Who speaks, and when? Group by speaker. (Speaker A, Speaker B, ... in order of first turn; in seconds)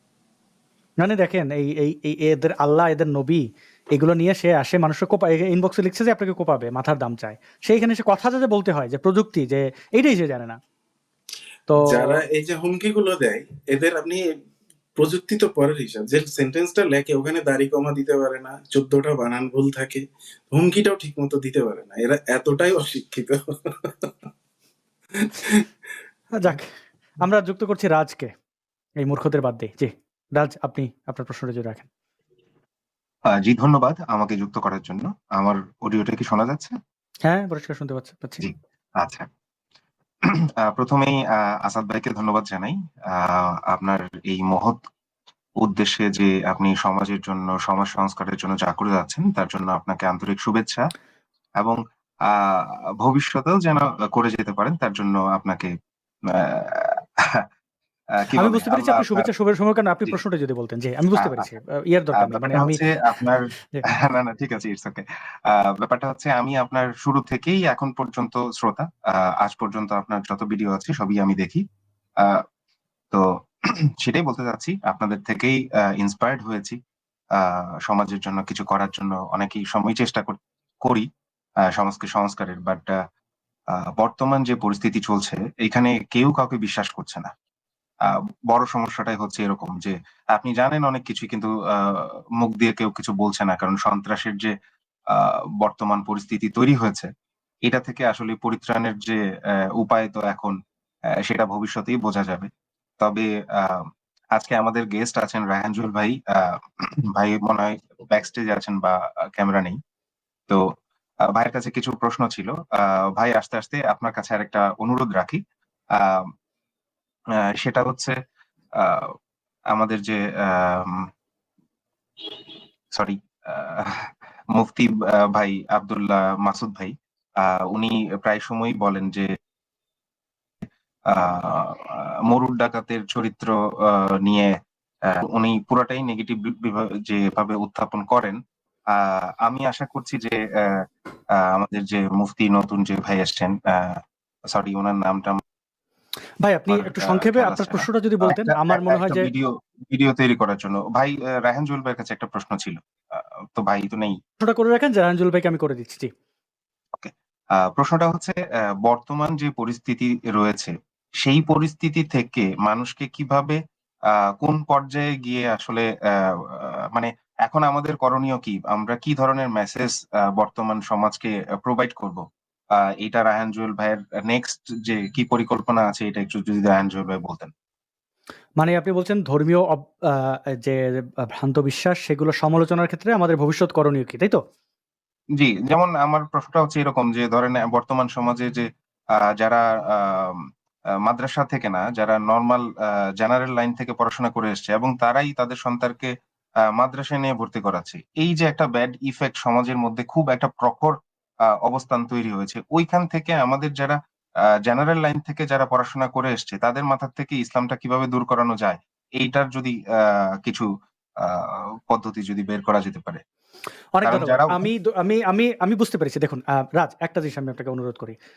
Speaker A: 1.0-10.6, 11.7-12.2, 26.4-26.7, 27.2-28.3, 29.0-31.9, 37.2-38.4, 58.4-62.8, 146.4-149.3, 154.4-156.1, 178.6-184.4, 213.9-218.2
Speaker B: 11.8-14.2, 15.0-24.1, 25.2-25.6
Speaker C: 33.3-36.8, 38.4-39.3, 40.2-44.8, 45.6-50.9, 51.6-55.7, 56.3-57.5, 58.2-59.3, 61.2-61.5, 62.2-63.5, 64.0-71.6, 73.1-76.8, 77.3-81.1, 81.7-83.0, 83.7-87.3, 88.0-94.5, 95.1-97.1, 97.6-99.2, 99.7-100.5, 101.2-109.8, 111.3-115.4, 116.0-116.3, 117.4-118.2, 118.8-119.2, 119.7-121.1, 122.2-129.3, 131.1-134.6, 135.1-138.4, 138.9-144.0, 144.5-145.4, 146.7-154.2, 157.0-172.2, 172.8-177.5, 185.4-190.5, 191.0-196.1, 196.7-200.9, 201.6-204.0, 204.6-210.7, 211.2-213.2, 214.0-214.7